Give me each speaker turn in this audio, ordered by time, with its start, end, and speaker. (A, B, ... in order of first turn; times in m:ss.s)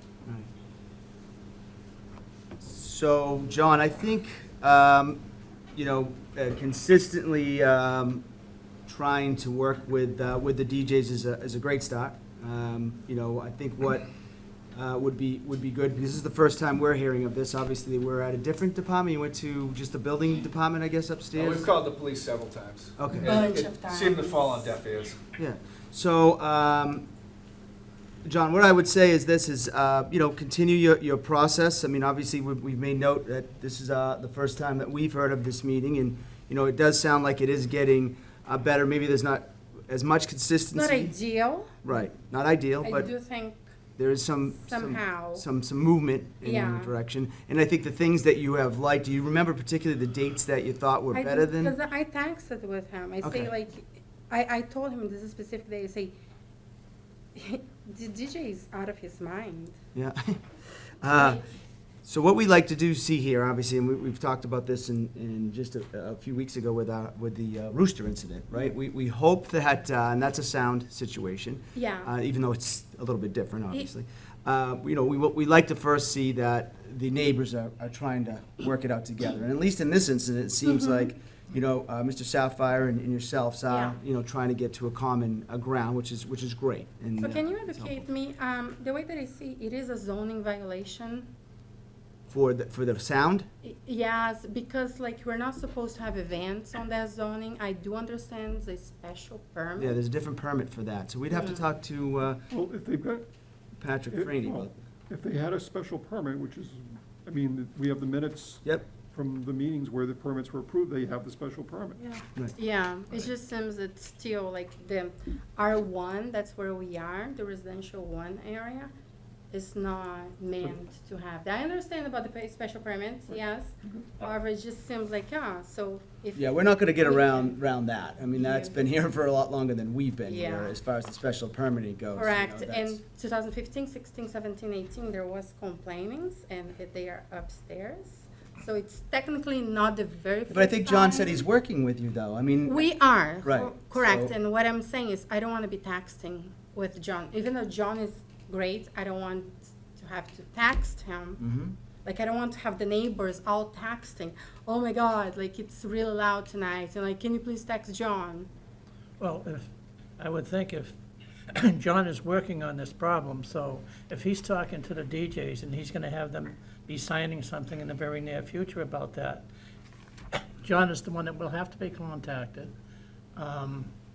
0:02.6-0:05.2 A
0:05.7-0:08.3 A
0:08.9-0:14.1 A
0:14.7-0:21.7 A
0:21.3-0:25.3 B
0:23.0-0:23.7 A
0:23.2-0:24.8 C
0:25.4-0:27.1 A
0:28.2-0:41.1 A
0:40.7-0:41.8 C
0:41.8-0:43.1 A
0:42.8-0:43.6 C
0:44.0-0:51.8 A
0:44.6-0:45.4 C
0:46.4-0:46.9 C
0:51.1-0:56.2 C
0:53.2-0:53.5 A
0:57.4-0:59.8 C
1:00.0-1:00.4 A
1:01.0-1:01.4 A
1:01.1-1:01.4 C
1:02.0-1:28.0 A
1:11.8-1:12.1 C
1:20.6-1:21.1 C
1:23.7-1:24.0 C
1:27.2-1:31.3 C
1:32.3-1:33.5 A
1:33.6-1:40.0 C
1:39.8-1:42.4 A
1:41.3-1:41.6 C
1:42.5-1:43.3 D
1:43.8-1:44.8 A
1:44.1-1:52.0 D
1:52.6-1:58.9 C
1:59.5-2:07.6 C
2:06.4-2:13.0 A
2:08.3-2:08.7 C
2:10.3-2:10.8 C
2:12.2-2:21.4 C
2:20.5-2:22.9 A
2:22.7-2:31.4 C
2:23.4-2:24.3 A
2:31.4-2:31.7 A
2:32.0-2:38.5 C
2:39.2-2:41.0 E
2:41.5-2:49.5 E
2:50.6-2:52.7 E
2:53.4-2:53.9 E